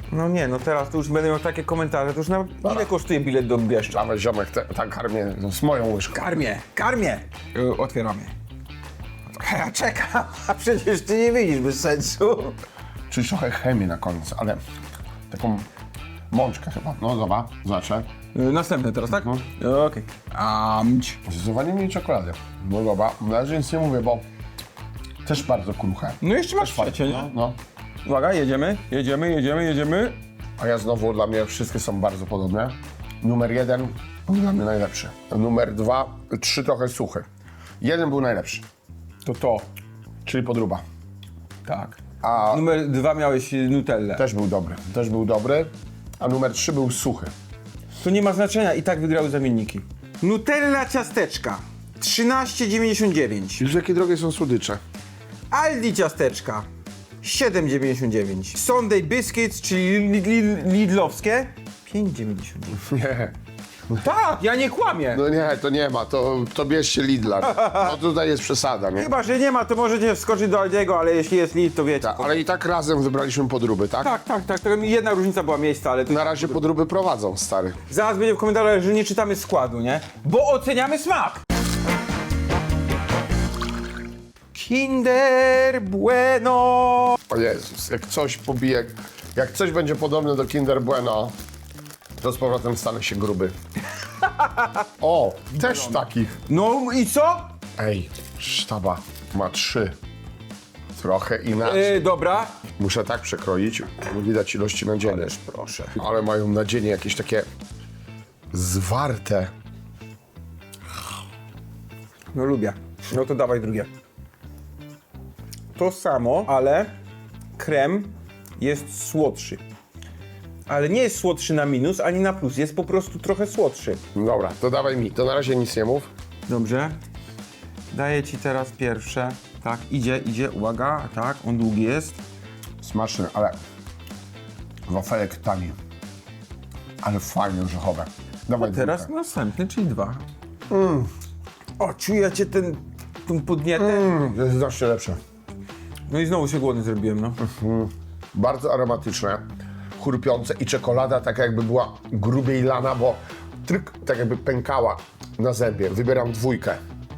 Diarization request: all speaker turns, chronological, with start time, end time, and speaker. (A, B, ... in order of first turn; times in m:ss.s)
0:00.1-0:04.0 A
0:02.6-0:02.9 B
0:03.9-0:06.4 B
0:06.1-0:08.3 A
0:09.4-0:12.6 A
0:13.1-0:14.6 B
0:15.3-0:15.7 B
0:16.3-0:18.1 B
0:18.3-0:21.2 A
0:19.1-0:19.4 B
0:21.2-0:24.2 B
0:25.2-0:27.6 B
0:26.2-0:27.3 A
0:28.0-0:30.2 A
0:30.6-0:37.2 B
0:37.8-0:38.6 B
0:39.2-0:39.7 A
0:40.2-0:40.8 B
0:41.6-0:42.0 A
0:42.2-0:42.6 B
0:42.5-0:44.2 A
0:44.2-0:47.3 B
0:48.0-0:53.6 A
0:53.6-0:54.8 B
0:55.5-0:56.6 A
0:57.2-1:02.8 A
1:02.8-1:03.3 B
1:04.0-1:05.2 A
1:05.1-1:09.1 B
1:07.4-1:07.9 A
1:09.0-1:12.4 A
1:12.0-1:14.1 B
1:14.0-1:16.6 A
1:16.1-1:17.8 B
1:17.9-1:21.4 A
1:24.5-1:27.2 A
1:27.3-1:31.3 B
1:32.2-1:33.5 B
1:34.2-1:34.8 A
1:35.0-1:36.4 B
1:35.5-1:37.5 A
1:37.8-1:39.9 B
1:41.0-1:42.0 B
1:41.6-1:42.6 A
1:42.8-1:45.3 B
1:45.0-1:46.0 A
1:46.0-1:47.5 B
1:48.5-1:49.5 B
1:52.3-1:53.9 A
1:55.8-1:56.9 A
1:57.6-1:59.6 A
2:00.7-2:04.0 A
2:04.1-2:06.1 B
2:06.5-2:07.0 A
2:07.9-2:12.2 A
2:12.8-2:13.6 B
2:14.9-2:15.8 B
2:17.0-2:19.1 B
2:18.6-2:20.2 A
2:20.7-2:21.1 B
2:21.8-2:24.1 A
2:23.7-2:25.2 B
2:26.1-2:27.4 A
2:27.4-2:29.4 B
2:30.0-2:36.8 B